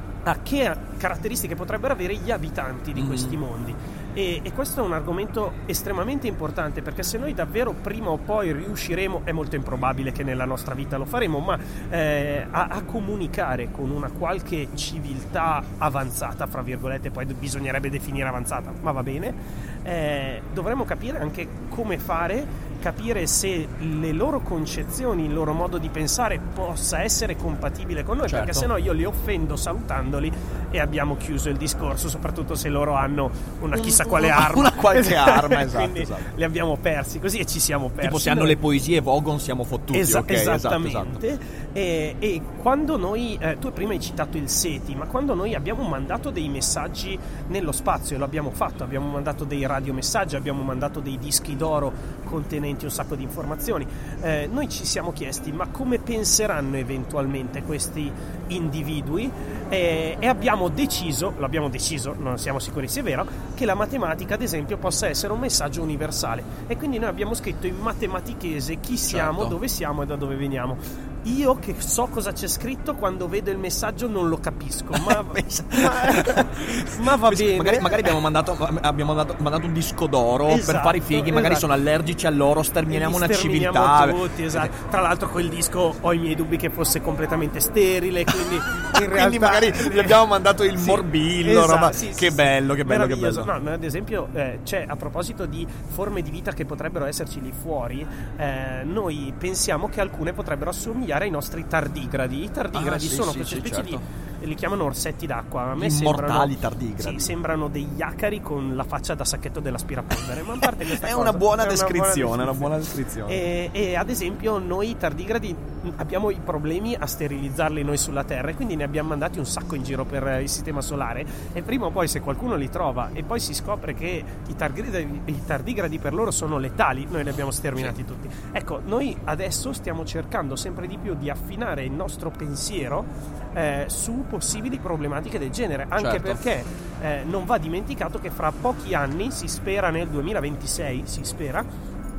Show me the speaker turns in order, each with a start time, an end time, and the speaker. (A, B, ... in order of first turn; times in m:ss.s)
0:00.2-0:38.6 A
0:03.0-0:03.4 B
0:28.2-0:28.7 B
0:33.7-0:36.3 B
0:38.0-0:41.2 B
0:39.9-1:18.2 A
1:09.1-1:09.6 B
1:14.9-1:24.7 B
1:20.5-1:21.7 A
1:22.9-1:30.2 A
1:28.9-1:33.5 B
1:30.8-1:52.7 A
1:42.7-1:44.0 B
1:45.8-1:47.3 B
1:50.6-1:53.4 B
1:53.2-2:21.6 A
2:16.0-2:16.4 B